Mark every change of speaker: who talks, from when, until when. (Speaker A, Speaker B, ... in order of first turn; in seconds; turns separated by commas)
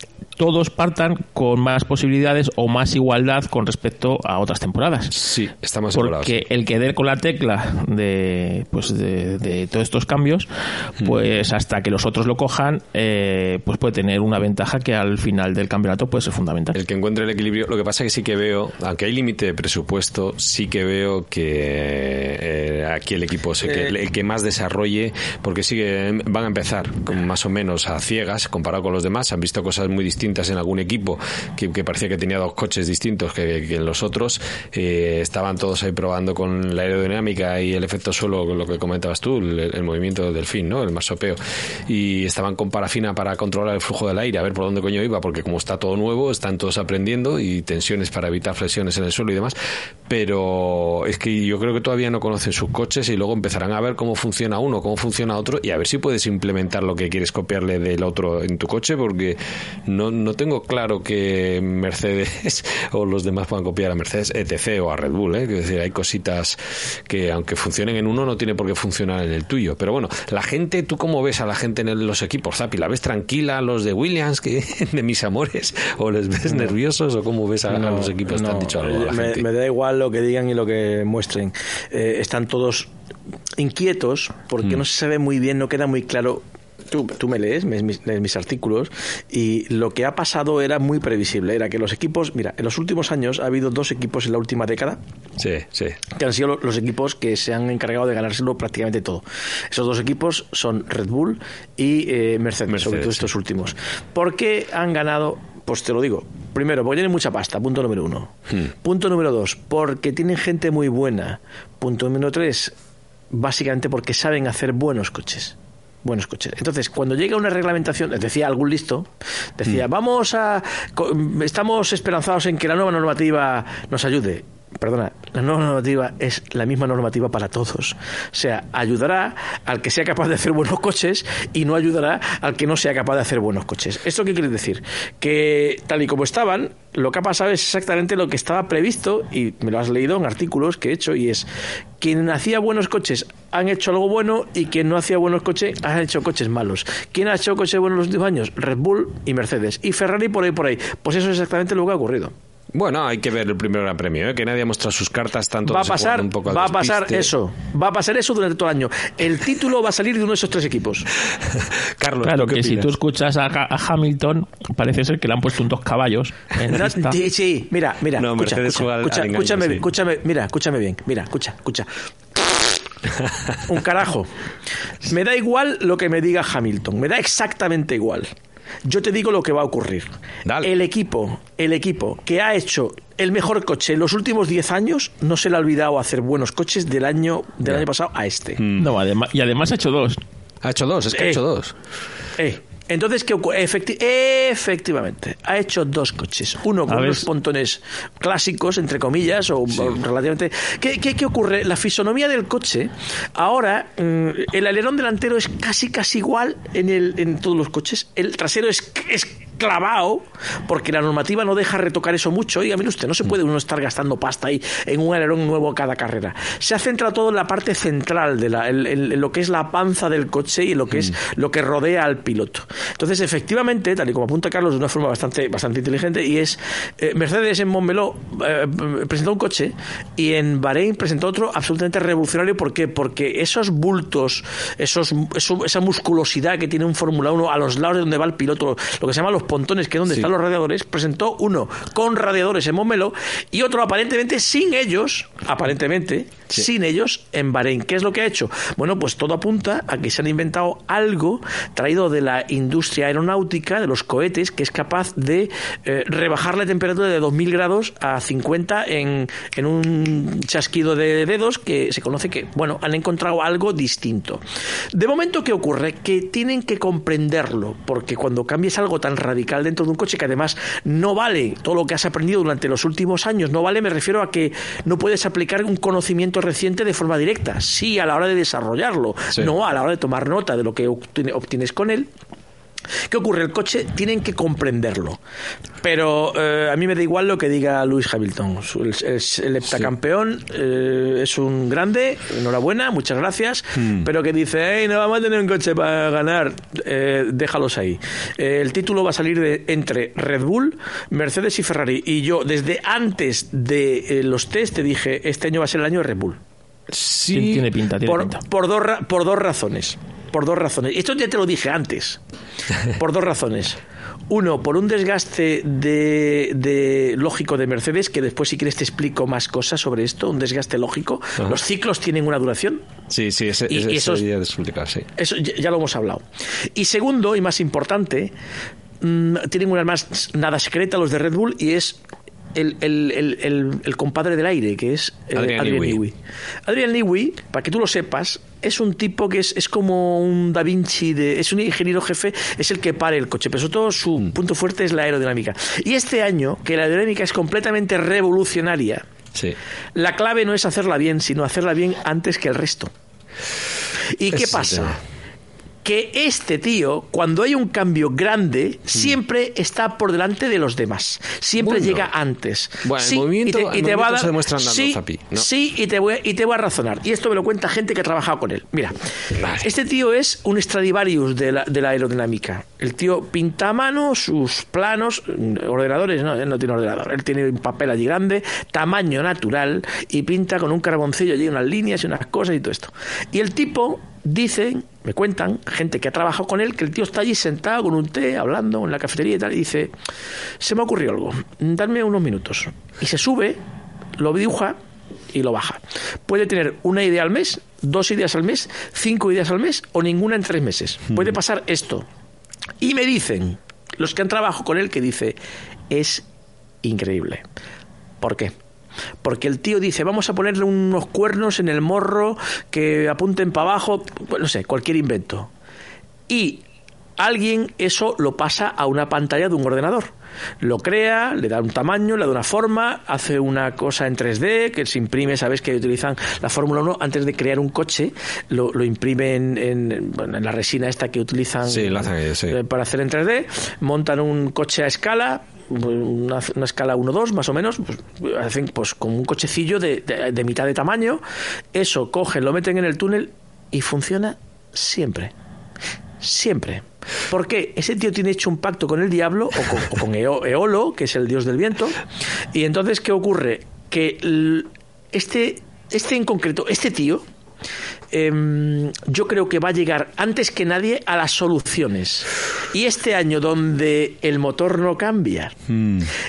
Speaker A: 0.4-5.2, Speaker B: 5.1-6.4, Speaker A: 5.9-16.8, Speaker B: 16.7-49.5, Speaker C: 23.6-23.9, Speaker B: 50.1-79.4, Speaker C: 77.7-82.9, Speaker C: 83.6-95.0, Speaker B: 95.4-96.0, Speaker C: 96.1-112.7, Speaker B: 102.7-103.3, Speaker C: 113.3-141.5, Speaker C: 142.0-152.3, Speaker B: 152.7-157.3, Speaker C: 155.7-161.1, Speaker B: 161.5-162.9, Speaker A: 162.2-167.2, Speaker C: 166.7-172.8, Speaker B: 168.2-169.8, Speaker B: 173.1-173.6, Speaker C: 173.7-174.3, Speaker C: 175.0-178.3, Speaker C: 178.8-180.1, Speaker B: 180.4-180.7, Speaker C: 180.6-188.6, Speaker B: 188.6-188.8, Speaker A: 188.7-190.2, Speaker B: 190.6-191.7, Speaker C: 191.1-191.4, Speaker C: 192.4-282.1, Speaker A: 196.9-197.3, Speaker C: 283.1-285.2, Speaker C: 285.8-306.4, Speaker B: 293.8-294.1, Speaker B: 306.9-307.7, Speaker A: 307.3-308.4, Speaker C: 308.0-312.2, Speaker C: 312.8-322.8, Speaker B: 323.1-325.1, Speaker C: 323.7-324.2, Speaker C: 325.2-328.3, Speaker C: 329.0-332.0, Speaker C: 332.5-336.1, Speaker B: 335.3-336.0, Speaker C: 336.6-349.0, Speaker C: 349.9-352.9, Speaker C: 354.1-355.0, Speaker B: 354.3-355.0, Speaker C: 355.8-389.9, Speaker B: 361.6-362.1, Speaker B: 362.8-365.5, Speaker B: 369.3-369.7, Speaker C: 390.6-393.6, Speaker C: 394.2-394.8, Speaker C: 395.3-402.1, Speaker C: 402.8-405.4, Speaker C: 405.9-406.2, Speaker C: 406.8-407.4, Speaker C: 408.2-408.5, Speaker C: 409.2-415.5, Speaker C: 416.3-416.6, Speaker C: 417.2-420.1, Speaker C: 420.6-441.2, Speaker B: 431.6-432.6, Speaker C: 441.7-445.3, Speaker C: 446.2-452.0, Speaker C: 452.5-457.2, Speaker C: 458.1-465.6, Speaker B: 465.7-466.1